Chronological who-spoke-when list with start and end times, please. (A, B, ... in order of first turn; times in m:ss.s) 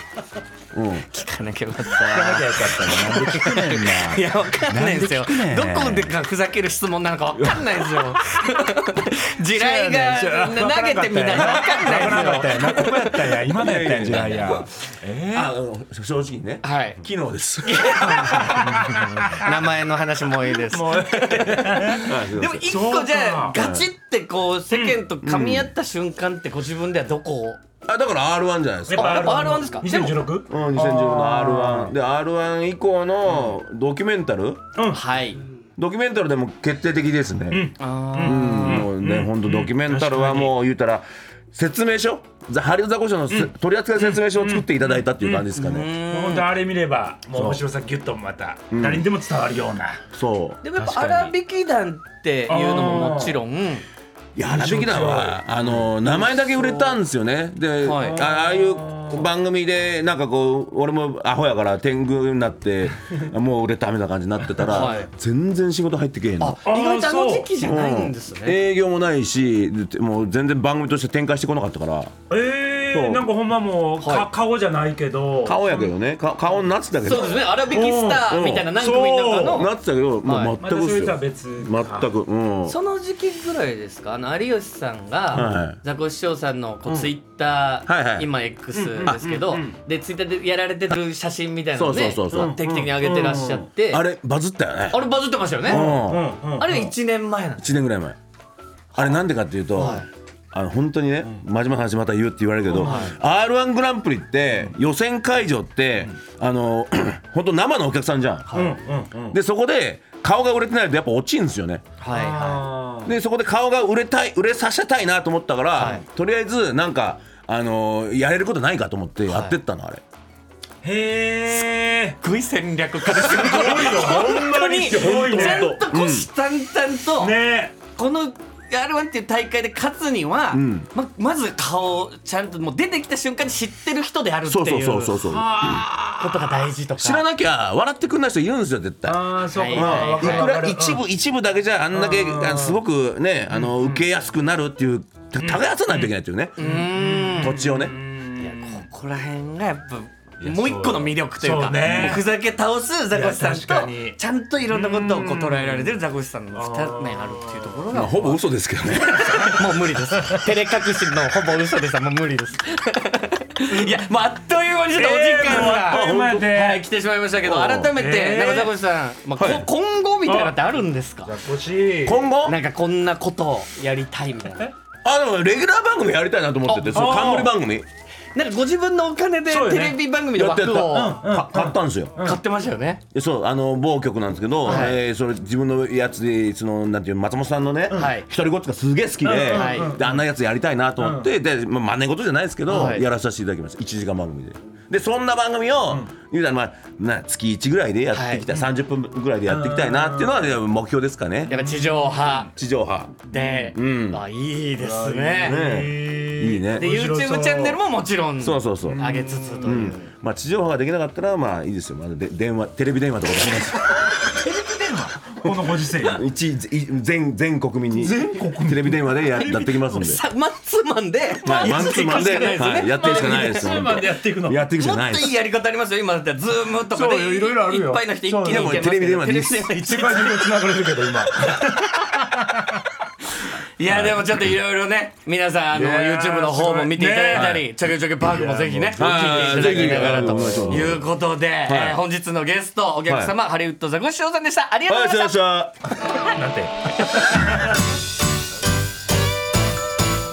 0:00.7-0:01.1 A
0:01.0-0:13.5 B
0:02.1-0:06.1 C
0:07.4-0:07.7 A
0:09.5-0:15.5 C
0:13.5-0:14.7 A
0:14.0-0:14.6 B
0:15.3-0:19.1 A
0:16.6-0:17.0 B
0:17.6-0:18.8 B
0:18.0-0:19.6 C
0:19.4-0:27.6 B
0:20.6-0:23.6 C
0:22.0-0:22.7 A
0:23.6-0:23.9 A
0:24.7-0:25.0 C
0:25.2-0:25.7 A
0:27.9-0:29.5 A
0:28.9-0:31.9 C
0:28.9-0:30.2 B
0:30.5-0:34.6 A
0:34.8-0:35.0 C
0:34.9-0:35.4 B
0:35.8-0:37.7 A
0:37.5-0:40.5 C
0:37.8-0:38.9 B
0:38.2-0:45.9 A
0:43.3-0:45.5 C
0:45.6-0:46.5 B
0:46.1-0:50.0 C
0:47.3-0:47.6 A
0:48.7-0:49.1 A
0:50.1-0:50.6 A
0:50.6-0:53.8 B
0:50.8-0:51.4 C
0:52.5-0:53.4 C
0:54.4-1:06.6 A
0:54.4-0:56.9 C
0:57.8-0:58.2 B
0:57.9-0:59.3 C
1:04.7-1:05.1 B
1:06.4-1:08.6 B
1:06.6-1:07.5 C
1:07.6-1:12.2 A
1:12.3-1:15.9 C
1:12.9-1:13.3 A
1:14.0-1:14.3 B
1:15.4-1:17.5 A
1:17.0-1:19.7 B
1:17.6-1:19.7 C
1:18.2-1:18.8 A
1:19.5-1:22.8 A
1:20.2-1:20.6 B
1:20.6-1:22.1 C
1:22.6-1:34.0 B
1:25.3-1:25.8 A
1:27.9-1:28.3 A
1:28.7-1:29.8 C
1:31.8-1:35.0 A
1:32.3-1:33.6 C
1:34.9-1:35.9 B
1:35.6-1:36.9 C
1:35.6-1:36.4 A
1:36.6-1:37.7 B
1:37.6-1:38.2 A
1:38.9-1:39.2 B
1:38.9-1:48.6 A
1:39.7-1:40.1 B
1:42.7-1:43.1 C
1:42.8-1:43.2 B
1:48.5-1:48.7 B
1:48.5-1:49.4 C
1:49.3-1:51.9 A
1:52.0-1:52.6 B
1:52.1-1:53.1 C
1:53.0-2:00.0 A
1:55.8-1:56.0 B
1:59.3-1:59.6 B
2:00.8-2:02.2 C
2:02.2-2:07.4 B
2:03.1-2:05.7 C
2:04.9-2:06.3 A
2:07.2-2:07.7 C
2:07.9-2:15.2 B
2:10.5-2:10.9 A
2:14.5-2:15.9 A
2:15.2-2:16.6 C
2:16.2-2:17.2 B
2:17.0-2:26.6 A
2:19.0-2:21.0 C
2:19.6-2:20.5 B
2:21.9-2:22.8 C
2:23.5-2:24.0 C
2:25.4-2:28.8 C
2:26.6-2:27.6 B
2:27.3-2:28.0 A
2:28.4-2:38.4 B
2:30.4-2:32.3 C
2:31.9-2:32.2 A
2:33.1-2:36.0 C
2:36.5-2:37.8 C
2:37.9-2:39.4 A
2:39.0-2:51.3 B
2:39.1-2:40.5 C
2:43.7-2:44.0 C
2:44.9-2:46.8 C
2:45.8-2:46.5 A
2:47.4-2:47.9 A
2:47.9-2:48.7 C
2:49.4-2:49.7 A
2:50.2-2:52.2 C
2:52.0-2:52.6 A
2:52.4-2:54.7 B
2:55.0-2:57.9 A
2:56.7-2:57.2 B
2:56.9-2:57.5 C
2:58.4-3:01.2 B
2:59.5-3:00.0 C
3:00.3-3:02.2 A
3:00.8-3:02.4 C
3:02.2-3:03.0 B
3:03.1-3:21.5 A
3:04.6-3:05.0 B
3:07.9-3:08.3 B
3:09.2-3:10.2 C
3:09.5-3:09.9 B
3:11.0-3:11.3 C
3:12.7-3:13.1 B
3:18.1-3:18.4 B
3:19.5-3:20.4 C
3:21.5-3:22.5 B
3:21.5-3:22.4 C
3:22.5-3:24.2 A
3:23.2-3:25.6 B
3:24.8-3:27.8 C
3:25.4-3:26.9 A
3:26.6-3:30.1 B
3:28.4-3:29.0 A
3:28.8-3:29.8 C
3:29.6-3:34.0 A
3:33.9-3:36.2 C
3:36.0-3:40.2 A
3:37.9-3:40.0 C
3:39.4-3:43.9 B
3:41.4-3:44.6 C
3:41.4-3:45.3 A
3:44.8-3:50.6 B
3:46.9-3:48.8 C
3:48.4-3:49.7 A
3:49.8-3:52.8 C
3:51.4-3:51.9 B
3:53.8-4:05.4 B
3:53.8-3:54.2 A
3:55.7-3:57.7 C
3:57.3-3:57.6 A
3:58.2-4:00.6 C
3:59.0-4:01.1 A
4:01.6-4:02.0 A
4:03.1-4:03.3 A
4:04.9-4:05.8 A
4:06.2-4:07.7 C